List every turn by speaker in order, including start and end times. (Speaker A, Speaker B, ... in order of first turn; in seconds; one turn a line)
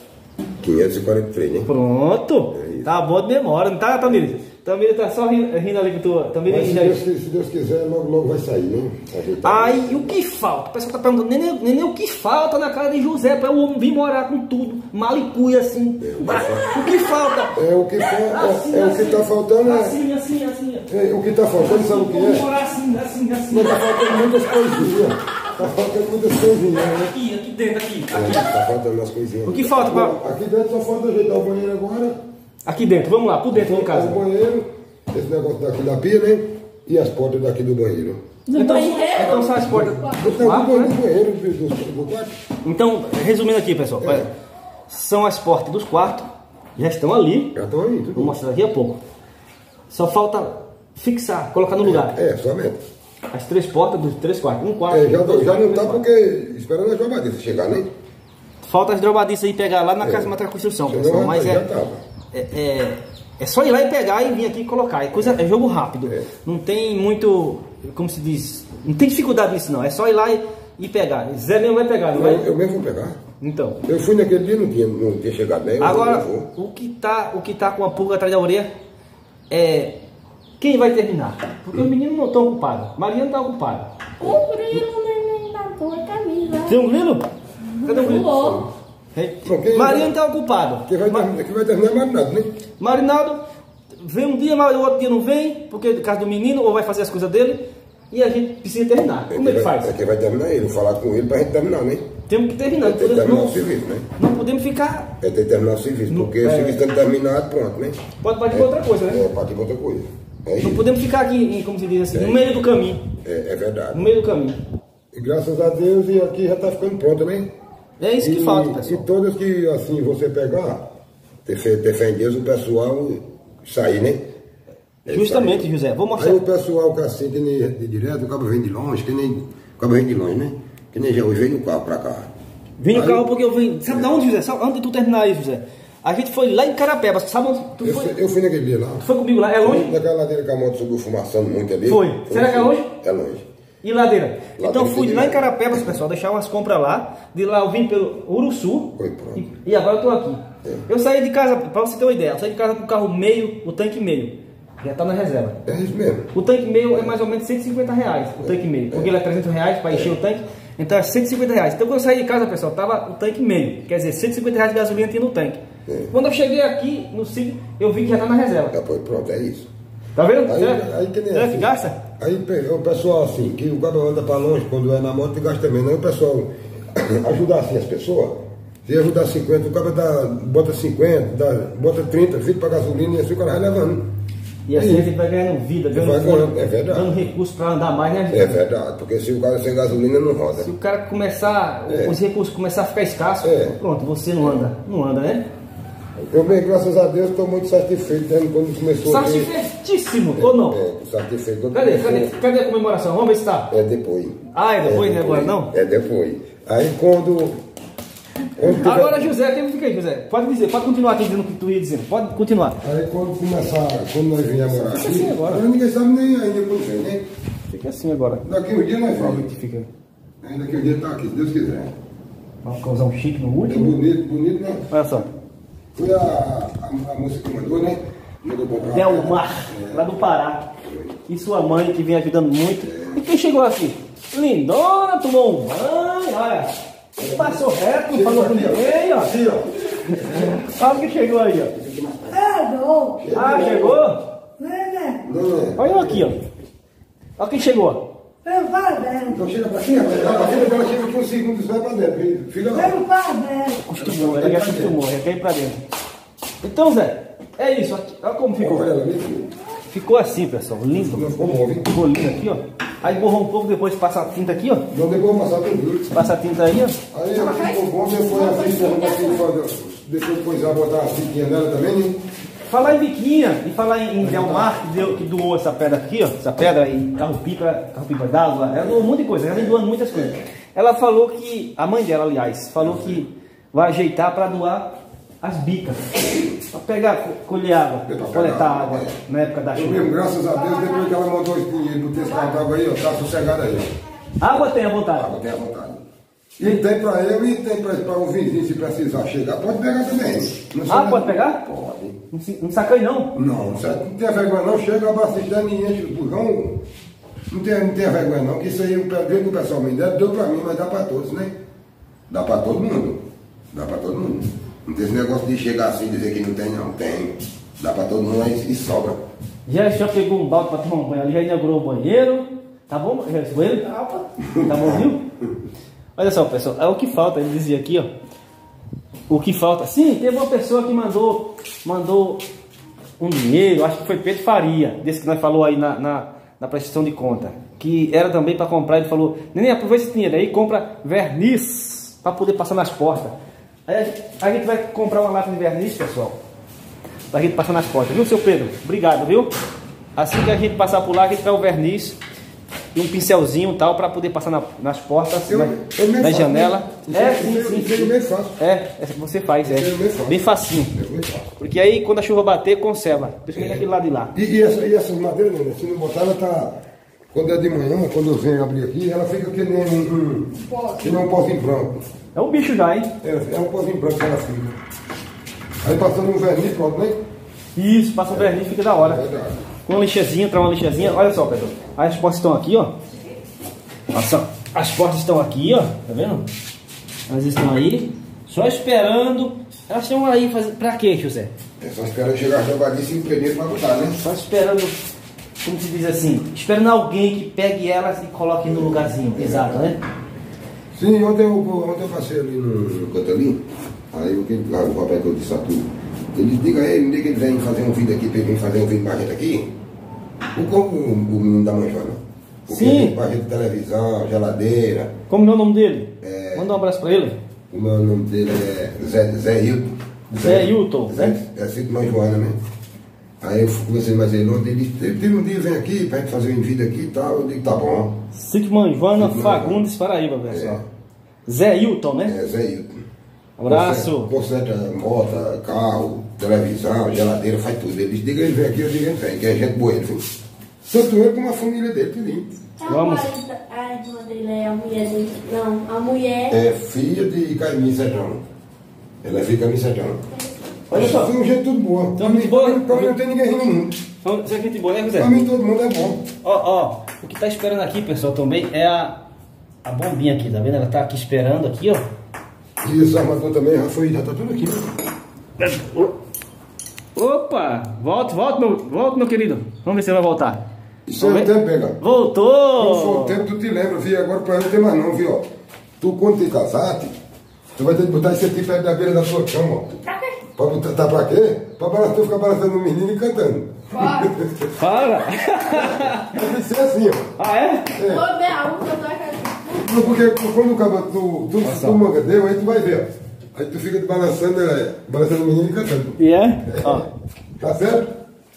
Speaker A: 0.6-1.7
Speaker B: 1.6-7.0
Speaker A: 2.5-2.9
Speaker A: 6.4-10.1
Speaker B: 9.4-20.9
Speaker A: 16.0-16.7
Speaker A: 17.5-20.0
Speaker A: 20.9-22.5
Speaker B: 21.6-24.3
Speaker A: 23.5-27.1
Speaker B: 26.8-28.5
Speaker A: 28.1-32.2
Speaker B: 29.4-30.2
Speaker B: 32.6-34.2
Speaker A: 33.5-38.2
Speaker C: 38.5-39.5
Speaker B: 38.5-41.0
Speaker A: 39.1-42.3
Speaker B: 42.6-44.3
Speaker A: 44.0-44.3
Speaker B: 44.9-47.6
Speaker A: 47.5-48.4
Speaker B: 48.1-49.0
Speaker B: 49.9-52.2
Speaker A: 51.8-52.8
Speaker B: 53.3-56.0
Speaker A: 54.9-57.9
Speaker B: 58.6-61.6
Speaker A: 60.0-60.3
Speaker A: 60.9-62.0
Speaker B: 62.3-72.5
Speaker A: 65.1-65.4
Speaker A: 72.1-73.2
Speaker B: 73.4-73.8
Speaker A: 73.8-76.5
Speaker B: 75.8-78.7
Speaker B: 79.5-80.0
Speaker B: 80.6-83.9
Speaker C: 84.2-86.8
Speaker A: 84.2-84.8
Speaker B: 86.6-87.3
Speaker C: 87.8-88.7
Speaker B: 87.8-88.3
Speaker A: 88.0-88.7
Speaker B: 89.1-91.3
Speaker A: 89.4-90.1
Speaker A: 90.8-92.5
Speaker B: 92.8-93.4
Speaker B: 94.0-100.0
Speaker A: 99.3-102.1
Speaker B: 102.3-105.1
Speaker A: 102.8-104.1
Speaker A: 105.2-110.8
Speaker B: 106.1-106.8
Speaker B: 108.2-109.3
Speaker B: 110.6-113.1
Speaker A: 112.1-112.7
Speaker A: 113.2-114.0
Speaker B: 113.9-114.6
Speaker A: 115.1-117.5
Speaker B: 118.0-119.1
Speaker A: 118.2-120.9
Speaker A: 121.5-124.3
Speaker A: 125.0-132.3
Speaker B: 125.1-126.4
Speaker B: 132.8-138.2
Speaker A: 132.9-133.3
Speaker A: 133.8-134.3
Speaker A: 137.8-139.1
Speaker B: 139.0-139.9
Speaker A: 139.6-143.4
Speaker B: 141.8-142.9
Speaker B: 143.8-155.6
Speaker A: 144.6-146.0
Speaker A: 148.9-149.5
Speaker A: 155.6-156.3
Speaker B: 156.3-168.7
Speaker A: 158.4-159.1
Speaker A: 159.9-160.2
Speaker A: 165.9-166.1
Speaker A: 168.7-169.7
Speaker B: 170.2-172.0
Speaker A: 170.2-184.1
Speaker B: 184.7-188.6
Speaker A: 184.7-185.1
Speaker A: 185.9-187.1
Speaker A: 188.3-190.7
Speaker B: 190.6-195.5
Speaker A: 191.9-192.2
Speaker A: 193.4-193.8
Speaker A: 194.4-194.7
Speaker A: 196.2-199.5
Speaker B: 199.1-200.8
Speaker A: 200.3-202.4
Speaker B: 201.7-203.7
Speaker A: 203.7-207.6
Speaker B: 204.5-205.7
Speaker A: 208.6-209.3
Speaker B: 208.6-212.8
Speaker A: 212.8-217.2
Speaker B: 214.7-215.6
Speaker B: 217.7-218.4
Speaker A: 218.4-219.5
Speaker B: 219.2-219.9
Speaker A: 220.4-221.9
Speaker B: 222.6-223.9
Speaker A: 223.6-225.2
Speaker B: 224.9-225.3
Speaker A: 225.9-230.2
Speaker B: 228.8-230.7
Speaker A: 230.8-231.2
Speaker B: 231.3-236.7
Speaker A: 232.8-233.2
Speaker A: 237.2-240.6
Speaker B: 237.3-239.3
Speaker B: 240.2-241.8
Speaker A: 241.8-242.4
Speaker D: 242.3-243.2
Speaker A: 243.2-244.0
Speaker B: 243.3-244.3
Speaker D: 244.6-245.2
Speaker A: 245.2-246.3
Speaker B: 245.8-246.4
Speaker B: 247.4-248.1
Speaker D: 248.4-249.4
Speaker A: 249.3-253.0
Speaker D: 252.7-253.8
Speaker B: 253.8-255.8
Speaker A: 253.9-255.0
Speaker B: 256.6-258.9
Speaker A: 258.6-259.5
Speaker B: 259.9-261.3
Speaker A: 260.9-261.9
Speaker B: 261.8-264.9
Speaker A: 264.9-266.1
Speaker B: 266.1-267.0
Speaker A: 267.1-272.2
Speaker B: 272.7-290.1
Speaker A: 274.2-274.8
Speaker A: 278.7-280.4
Speaker A: 282.8-283.2
Speaker A: 288.1-289.2
Speaker A: 289.7-293.9
Speaker B: 294.4-295.3
Speaker A: 295.1-296.0
Speaker A: 296.6-302.2
Speaker B: 300.8-301.6
Speaker B: 302.3-303.3
Speaker A: 303.3-306.8
Speaker A: 307.5-311.6
Speaker A: 312.3-319.2
Speaker B: 319.6-325.2
Speaker A: 324.5-325.5
Speaker B: 326.1-328.1
Speaker B: 329.3-332.4
Speaker B: 333.2-343.4
Speaker B: 343.9-346.4
Speaker B: 347.3-349.5
Speaker B: 350.1-352.2
Speaker B: 352.9-360.9
Speaker A: 355.5-358.6
Speaker A: 359.6-361.5
Speaker B: 361.6-364.3
Speaker A: 363.5-366.8
Speaker A: 367.3-372.0
Speaker D: 370.7-371.1
Speaker B: 372.3-373.1
Speaker A: 373.2-374.8
Speaker A: 375.8-377.2
Speaker B: 377.8-379.2
Speaker A: 378.3-379.7
Speaker B: 379.9-383.0
Speaker A: 380.9-381.9
Speaker B: 384.1-386.5
Speaker B: 387.3-391.5
Speaker A: 391.8-394.2
Speaker B: 394.2-395.0
Speaker B: 395.6-400.0
Speaker A: 398.6-399.9
Speaker A: 400.9-409.7
Speaker A: 410.5-415.1
Speaker B: 412.7-413.2
Speaker B: 415.3-417.4
Speaker A: 416.2-416.7
Speaker A: 417.7-422.6
Speaker B: 420.3-421.4
Speaker A: 423.4-428.2
Speaker B: 428.3-430.8
Speaker A: 429.1-429.9
Speaker A: 430.5-430.9
Speaker B: 431.4-432.4
Speaker A: 432.2-433.1
Speaker B: 433.6-434.3
Speaker A: 433.7-440.3
Speaker A: 440.9-442.5
Speaker C: 442.8-446.6
Speaker B: 442.9-443.3
Speaker A: 446.5-448.4
Speaker A: 449.2-450.2
Speaker B: 450.9-451.3
Speaker A: 450.9-454.0
Speaker B: 452.2-453.1
Speaker B: 454.2-455.4
Speaker A: 455.1-456.2
Speaker B: 456.4-459.2
Speaker B: 459.8-462.1
Speaker A: 462.8-464.9
Speaker B: 465.6-466.1
Speaker B: 467.1-470.6
Speaker A: 471.1-472.0
Speaker B: 471.2-473.4
Speaker A: 472.8-477.1
Speaker A: 477.7-480.0
Speaker A: 480.6-484.8
Speaker C: 483.9-484.3
Speaker B: 484.8-486.4
Speaker A: 485.6-487.3
Speaker B: 487.4-487.9
Speaker A: 487.9-488.3
Speaker C: 488.0-489.8
Speaker A: 489.7-498.1
Speaker B: 491.6-492.0
Speaker B: 496.2-497.1